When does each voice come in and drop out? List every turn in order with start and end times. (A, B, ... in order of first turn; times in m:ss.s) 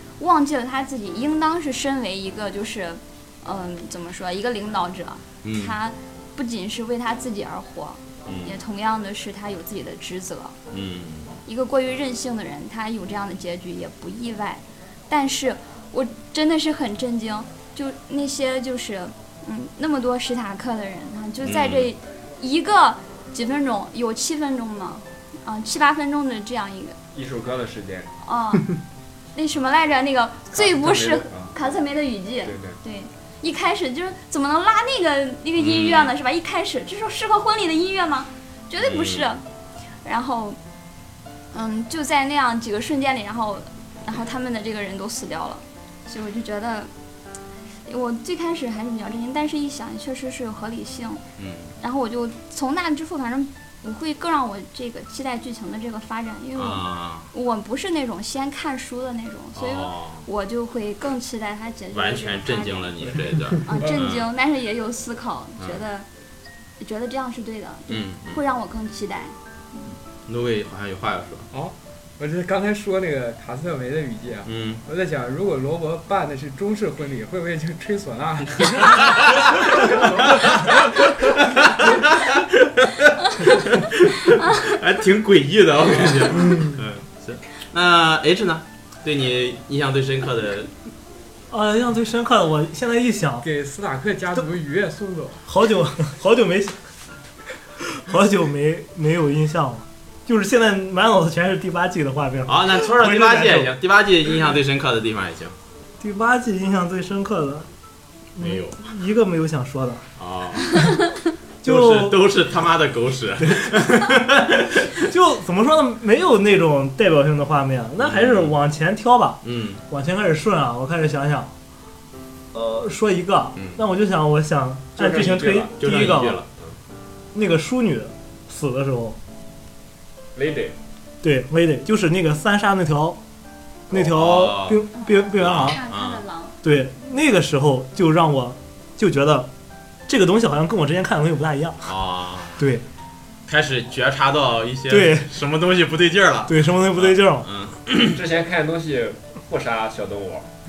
0:00.2-0:10.6 A
0:05.4-0:05.7 B
0:08.2-0:08.6 B
0:10.7-0:11.4 B
0:11.4-0:27.0 A
0:21.4-0:21.9 B
0:27.1-0:28.1 C
0:28.2-0:28.8 A
0:29.3-0:39.4 A
0:30.5-0:31.5 C
0:32.4-0:32.8 C
0:35.6-0:36.1 B
0:38.8-0:39.3 B
0:40.0-0:40.6 A
0:41.5-0:46.9 A
0:47.9-0:51.2 A
0:51.4-0:51.7 B
0:51.8-1:06.1 A
0:56.6-0:57.3 B
0:59.6-1:00.2 B
1:01.9-1:04.3 B
1:06.8-1:09.9 A
1:07.9-1:08.4 B
1:10.3-1:11.5 B
1:11.5-1:20.6 D
1:14.4-1:14.8 B
1:19.2-1:30.7 B
1:31.5-1:33.4 E
1:33.4-1:35.4 D
1:35.5-1:36.7 E
1:37.8-1:43.7 E
1:42.4-1:45.5 B
1:46.0-1:47.7 E
1:48.4-1:50.0 E
1:48.4-1:48.8 B
1:50.2-1:50.9 B
1:51.6-1:52.2 E
1:51.6-1:55.0 B
1:53.4-1:54.4 E
1:55.0-2:01.5 E
1:58.0-1:58.5 B
1:59.4-1:59.8 B
2:02.5-2:06.4 E
2:03.6-2:03.8 B
2:05.0-2:06.7 C
2:05.8-2:06.5 B
2:07.3-2:09.2 E
2:10.4-2:10.8 C
2:11.2-2:13.2 E
2:13.9-2:15.8 E
2:13.9-2:14.8 B
2:14.9-2:16.6 A
2:15.4-2:16.2 B
2:16.6-2:19.5 E
2:20.1-2:21.9 E
2:21.8-2:22.6 B
2:22.6-2:22.8 E
2:23.5-2:28.2 B
2:24.9-2:25.3 E
2:26.5-2:27.5 E
2:28.0-2:30.5 C